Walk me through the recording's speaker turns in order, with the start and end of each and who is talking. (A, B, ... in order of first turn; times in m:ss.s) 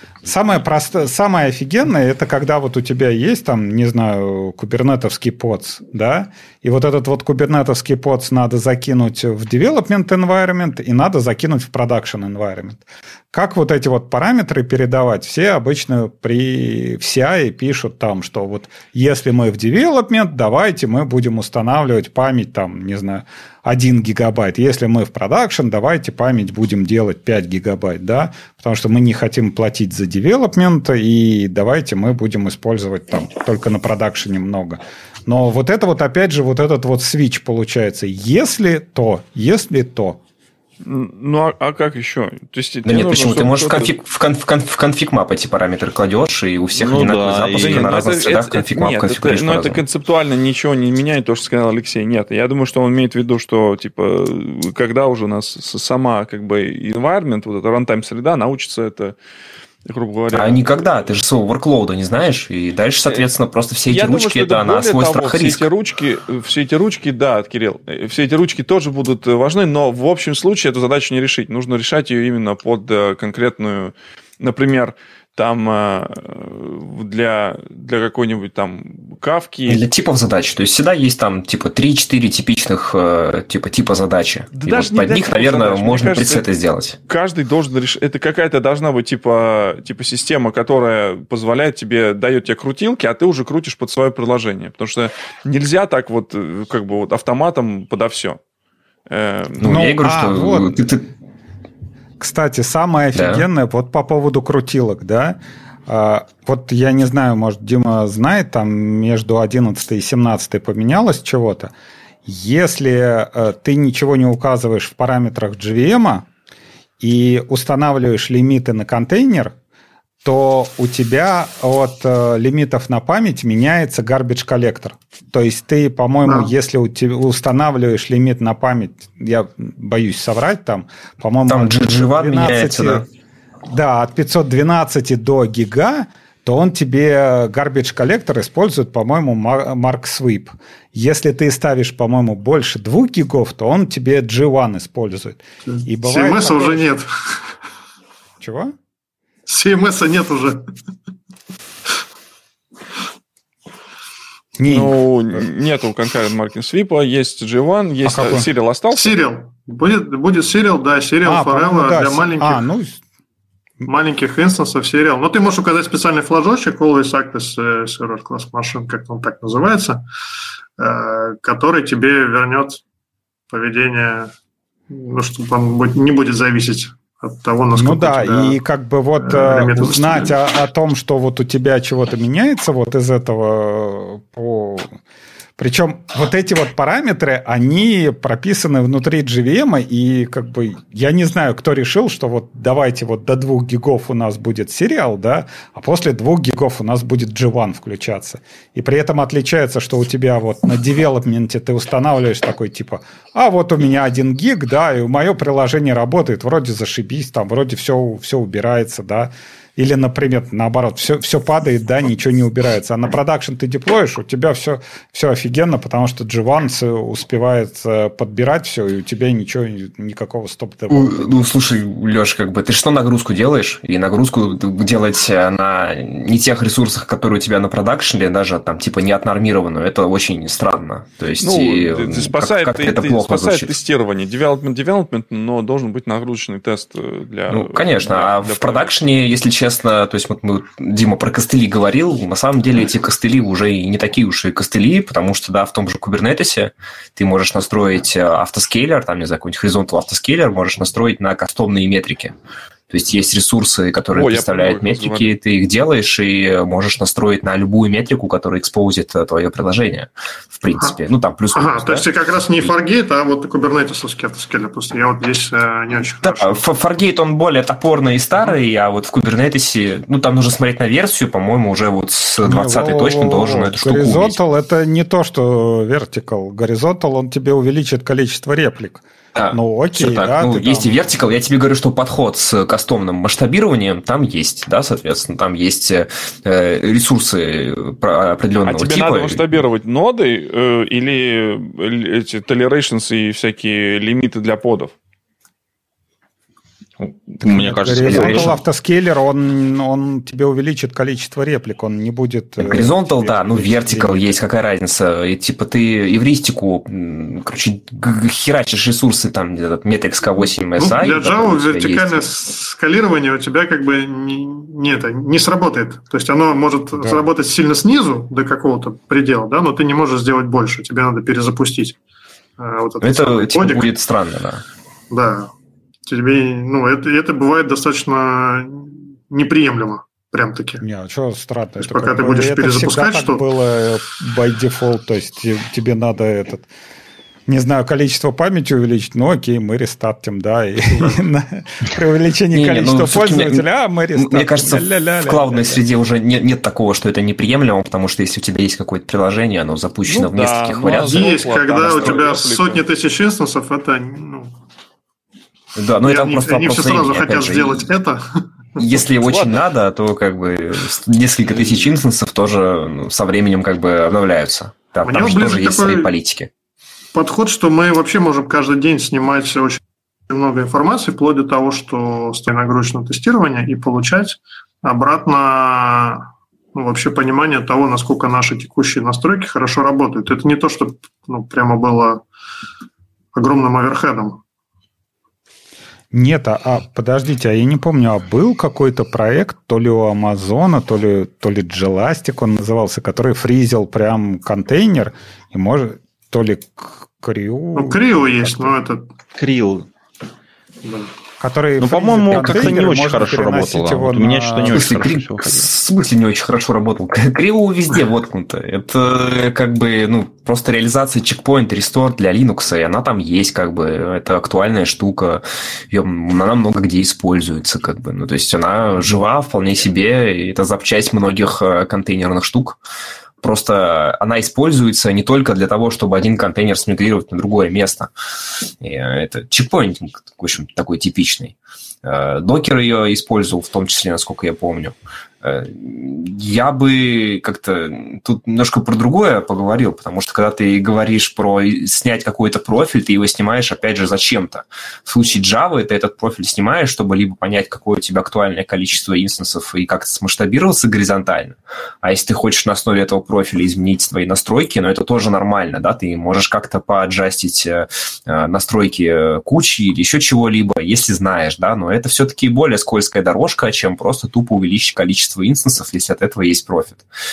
0:00.2-0:40.2 A
0:40.8-0:43.9 B
0:42.8-0:49.8 C
0:46.7-0:47.9 D
0:47.5-0:59.2 B
0:59.9-1:00.7 B
1:00.3-1:05.7 C
1:03.9-1:19.8 B
1:19.7-1:27.0 C
1:24.5-1:26.5 B
1:27.1-1:38.4 B
1:39.1-1:39.8 B
1:39.6-1:41.1 C
1:39.6-1:40.8 A
1:42.2-1:51.7 A
1:43.2-1:43.4 C
1:52.2-1:56.3 A
1:57.0-1:59.6 A
2:00.2-2:13.1 A
2:11.5-2:13.1 C
2:13.7-2:26.8 A
2:25.7-2:27.1 E
2:28.4-2:28.8 A
2:29.5-2:30.6 E
2:34.6-2:35.4 A
2:34.7-2:39.2 B
2:38.0-2:38.5 A
2:38.9-2:42.6 E
2:41.2-2:43.0 A
2:43.9-2:50.0 E
2:50.8-2:52.8 E
2:53.5-2:54.3 E
2:54.9-2:58.6 E
2:57.7-3:05.0 A
2:59.2-3:00.4 E
3:05.6-3:41.4 A
3:40.9-3:53.8 C
3:51.4-3:58.9 B
3:57.5-4:12.4 C
4:12.9-4:22.1 C
4:14.1-4:15.3 B
4:21.5-4:26.6 E
4:26.2-4:34.4 C
4:32.4-4:41.0 A
4:39.4-4:49.5 C
4:48.6-4:54.9 B
4:57.0-4:58.6 D
4:57.4-5:04.4 A
4:58.0-4:58.6 C
5:02.6-5:12.2 C
5:10.8-5:22.0 E
5:17.0-5:17.2 C
5:22.6-5:23.9 E
5:23.0-5:24.6 C
5:25.1-5:25.5 E
5:26.1-5:30.8 E
5:30.8-5:36.7 A
5:31.8-5:33.4 E
5:37.5-5:45.8 A
5:42.5-5:51.4 C
5:50.1-5:52.8 B
5:51.0-5:54.5 E
5:51.9-5:52.2 C
5:55.8-5:57.9 C
5:56.0-5:58.8 E
5:58.8-6:06.5 C
5:59.2-5:59.6 B
6:01.5-6:01.9 B
6:05.1-6:06.1 E
6:07.1-6:22.2 E
6:23.3-6:24.4 E
6:26.1-6:38.8 A
6:37.8-6:39.1 E
6:39.4-6:39.9 D
6:40.8-6:41.1 E
6:41.4-6:44.9 A
6:41.8-6:45.7 D
6:44.7-7:02.8 C
7:03.4-7:08.1 C
7:08.8-7:47.1 C